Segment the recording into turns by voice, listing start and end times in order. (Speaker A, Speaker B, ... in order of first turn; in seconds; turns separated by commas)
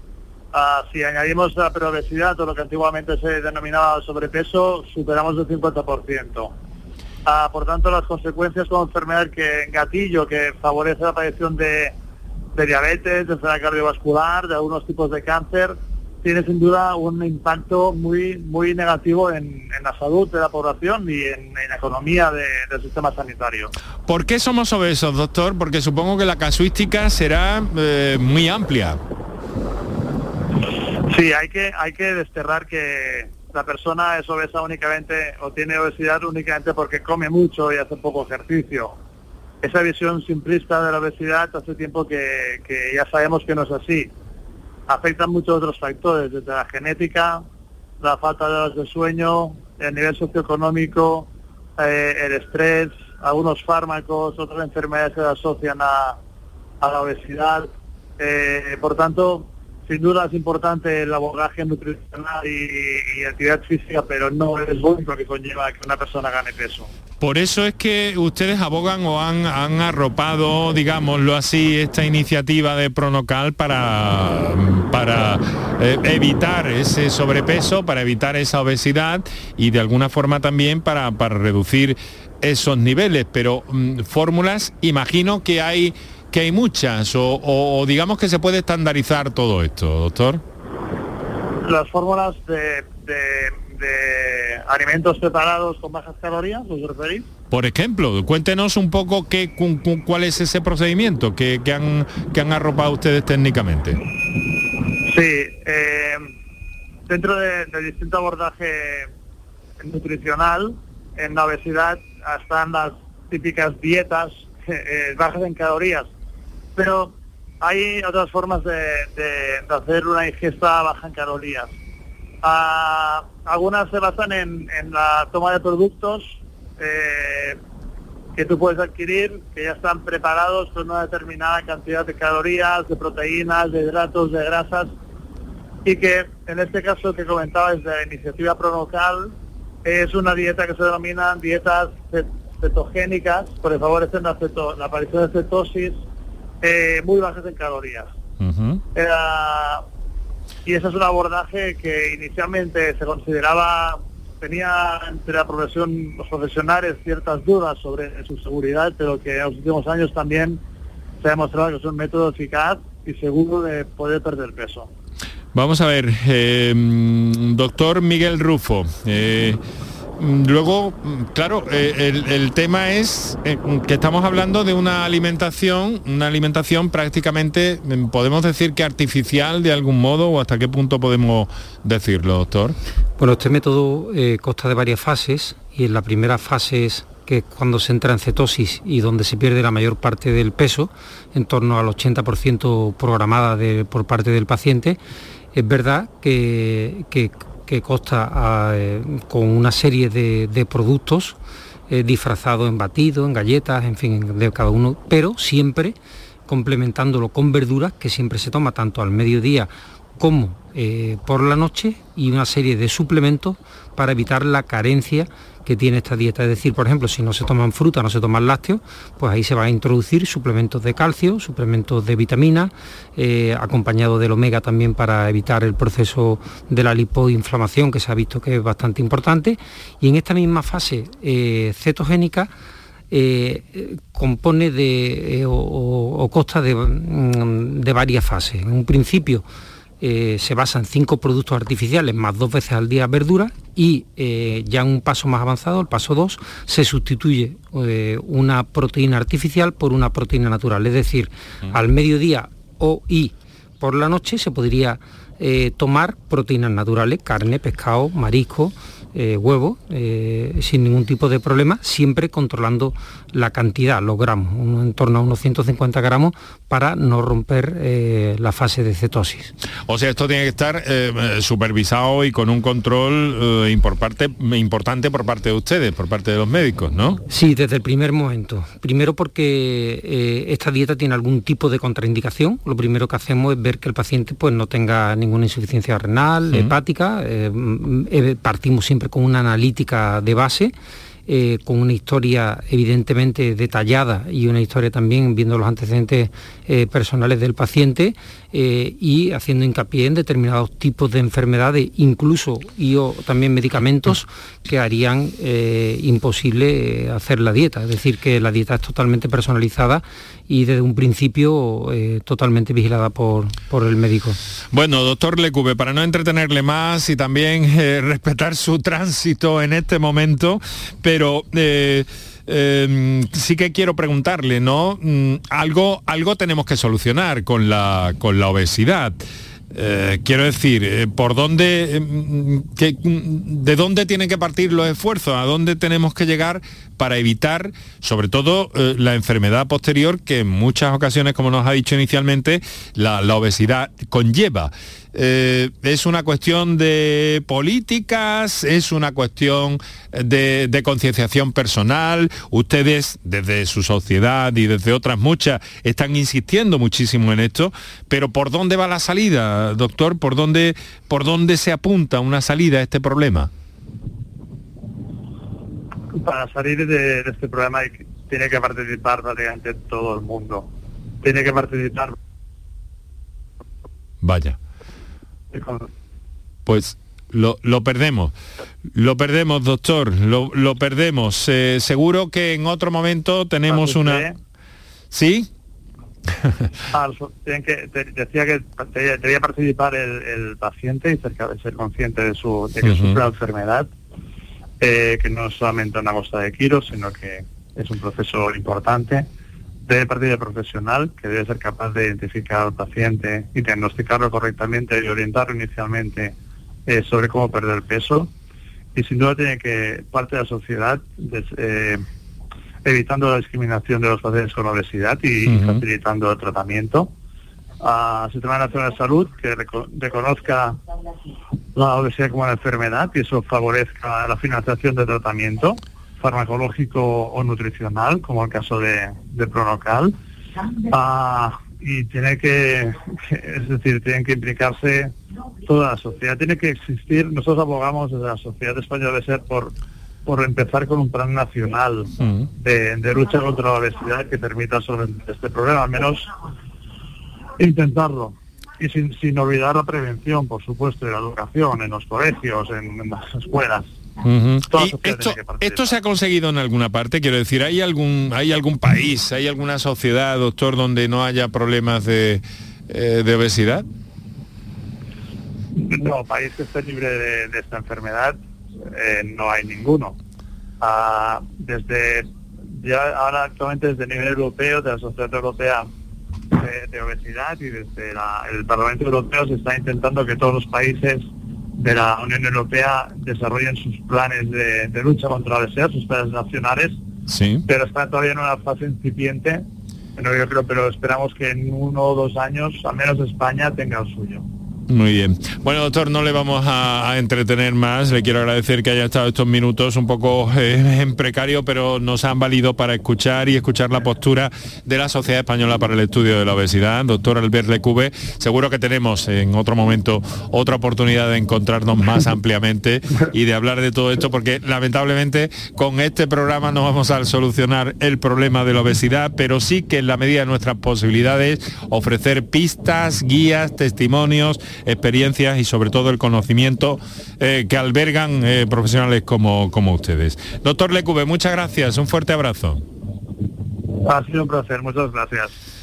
Speaker A: 0.5-6.5, Speaker A: 7.2-11.9, Speaker A: 12.5-23.7, Speaker B: 24.1-29.0, Speaker A: 31.1-39.0, Speaker A: 39.6-44.1, Speaker A: 44.9-47.4, Speaker A: 48.0-56.2, Speaker A: 56.8-66.9, Speaker B: 67.2-90.4, Speaker A: 91.6-97.3, Speaker B: 97.5-104.0, Speaker A: 105.0-106.3, Speaker A: 107.1-109.1, Speaker A: 109.8-116.1, Speaker A: 116.8-121.7, Speaker A: 122.4-127.6, Speaker A: 128.3-134.9, Speaker A: 135.8-139.3, Speaker A: 139.8-146.0, Speaker A: 146.6-148.1, Speaker B: 148.4-148.8, Speaker A: 148.9-149.8, Speaker A: 150.7-160.6, Speaker A: 161.2-164.9, Speaker B: 165.5-169.6, Speaker B: 170.2-182.8, Speaker C: 183.2-195.0, Speaker C: 195.5-201.4, Speaker C: 201.9-205.9, Speaker C: 206.5-232.5, Speaker C: 233.1-239.4, Speaker C: 240.0-269.5, Speaker B: 269.9-277.2, Speaker C: 277.3-290.7, Speaker C: 291.3-314.4, Speaker B: 314.7-329.2, Speaker B: 329.7-363.5, Speaker A: 366.1-370.7, Speaker A: 371.2-372.1, Speaker B: 374.2-374.6, Speaker A: 375.5-375.9, Speaker B: 376.7-378.3, Speaker B: 378.9-384.3, Speaker A: 383.7-384.3, Speaker B: 385.1-385.5, Speaker B: 386.4-386.7, Speaker A: 386.9-393.9, Speaker B: 392.8-393.2, Speaker A: 394.8-399.3, Speaker A: 399.9-406.3, Speaker A: 406.9-408.3, Speaker A: 408.9-412.0, Speaker A: 412.8-417.1, Speaker B: 415.4-415.8, Speaker A: 417.8-420.8, Speaker A: 421.7-430.1, Speaker A: 430.8-435.1, Speaker A: 435.6-439.7, Speaker A: 440.2-446.3, Speaker B: 442.2-442.5, Speaker A: 447.6-453.9, Speaker B: 454.2-463.9, Speaker A: 454.7-455.9, Speaker A: 465.7-470.2, Speaker A: 470.8-475.9, Speaker A: 476.5-481.2, Speaker A: 481.8-487.0, Speaker B: 487.3-487.7, Speaker A: 487.7-489.6, Speaker A: 490.1-494.4, Speaker B: 494.9-532.8, Speaker A: 534.0-535.5